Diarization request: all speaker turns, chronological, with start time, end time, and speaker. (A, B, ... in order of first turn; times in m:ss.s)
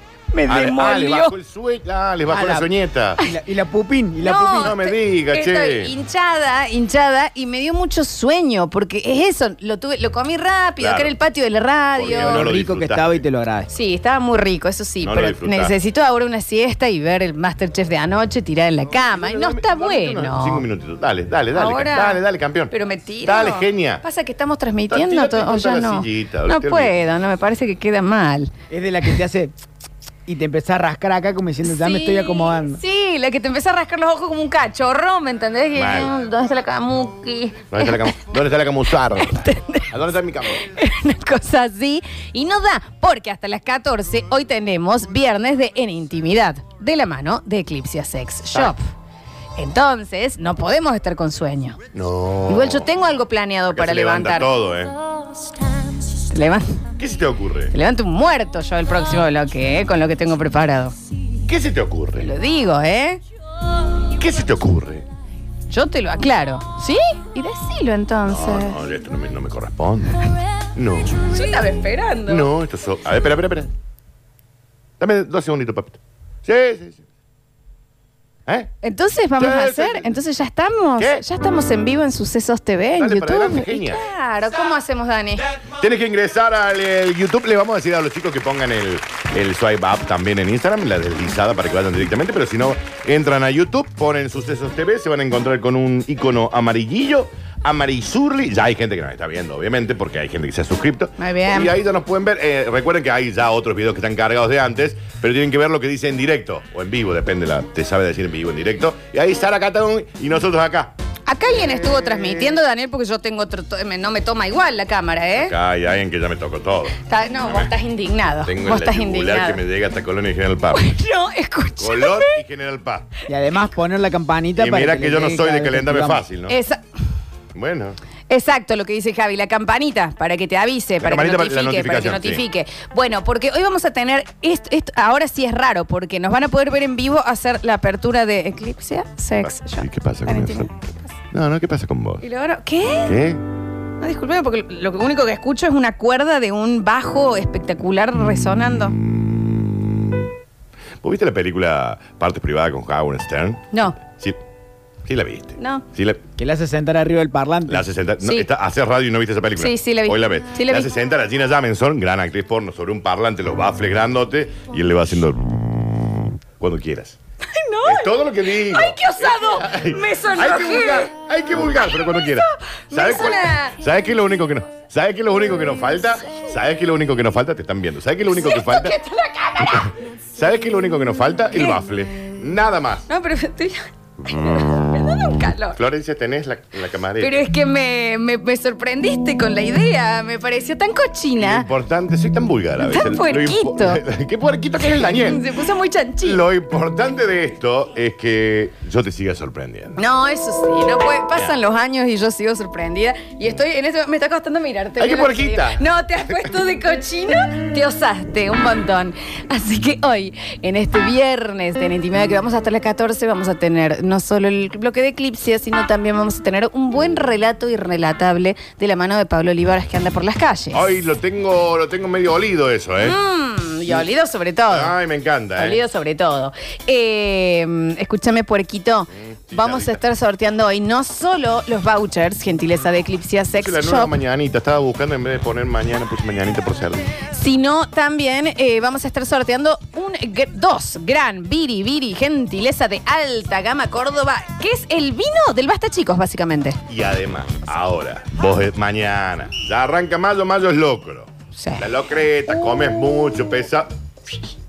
0:00.3-0:01.3 A
0:00.5-0:03.2 B
0:02.3-0:02.7 C
0:03.2-0:04.8 C
0:04.2-0:12.5 A
0:04.6-0:05.9 B
0:10.8-0:11.1 B
0:12.0-0:13.2 B
0:12.1-0:13.7 C
0:13.7-0:20.7 A
0:15.0-0:15.8 B
0:19.0-0:22.7 B
0:21.5-0:28.5 A
0:23.2-0:24.0 B
0:24.9-0:27.0 B
0:28.7-0:29.5 C
0:30.3-0:32.8 C
0:31.6-0:38.2 A
0:35.8-0:36.1 B
0:37.7-0:40.7 B
0:39.2-0:39.9 A
0:40.6-0:48.8 A
0:49.6-0:51.8 A
0:51.9-0:52.9 B
0:52.5-0:54.5 A
0:53.7-0:55.0 B
0:56.2-0:56.8 A
0:57.0-0:57.8 B
0:57.7-1:01.0 A
1:01.5-1:02.3 B
1:02.2-1:03.2 A
1:04.1-1:05.0 B
1:05.7-1:08.8 A
1:08.3-1:11.3 B
1:11.2-1:12.5 A
1:12.3-1:13.7 B
1:15.0-1:17.0 B
1:18.5-1:18.7 B
1:18.8-1:25.5 A
1:19.4-1:20.2 B
1:21.0-1:21.2 B
1:23.0-1:24.0 B
1:25.6-1:50.9 B
1:41.2-1:41.8 A
1:51.3-1:55.5 A
1:55.4-1:57.0 B
1:57.0-1:59.6 A
1:58.4-2:00.9 B
2:00.7-2:02.4 A
2:01.8-2:03.1 B
2:03.3-2:06.2 C
2:04.6-2:06.6 B
2:06.5-2:06.8 A
2:07.6-2:08.0 B
2:08.3-2:20.9 A
2:11.0-2:12.4 B
2:19.4-2:20.7 B
2:21.3-2:22.2 B
2:22.2-2:23.2 A
2:23.0-2:23.4 B
2:24.0-2:29.0 A
2:28.5-2:30.3 B
2:31.0-2:34.4 B
2:33.7-2:34.0 A
2:35.1-2:36.2 B
2:35.6-2:35.8 A
2:36.4-2:37.8 C
2:37.7-2:47.2 B
2:38.2-2:38.5 A
2:39.6-2:40.9 A
2:47.5-2:51.1 A
2:47.8-2:59.0 B
2:51.7-2:53.8 A
2:58.3-2:59.9 A
2:59.6-3:03.1 B
3:01.5-3:01.8 A
3:03.1-3:05.8 A
3:05.8-3:07.4 B
3:07.2-3:11.7 A
3:11.4-3:15.4 B
3:12.8-3:14.0 A
3:14.8-3:16.4 A
3:16.2-3:20.0 B
3:20.0-3:40.9 A
3:21.3-3:21.6 B
3:25.0-3:25.8 B
3:40.7-3:43.2 B
3:43.0-3:44.9 A
3:44.7-3:45.8 B
3:45.6-3:54.2 A
3:49.2-3:50.0 B
3:53.6-3:57.1 B
3:57.3-4:06.8 A
4:06.9-4:14.4 B
4:11.6-4:11.9 A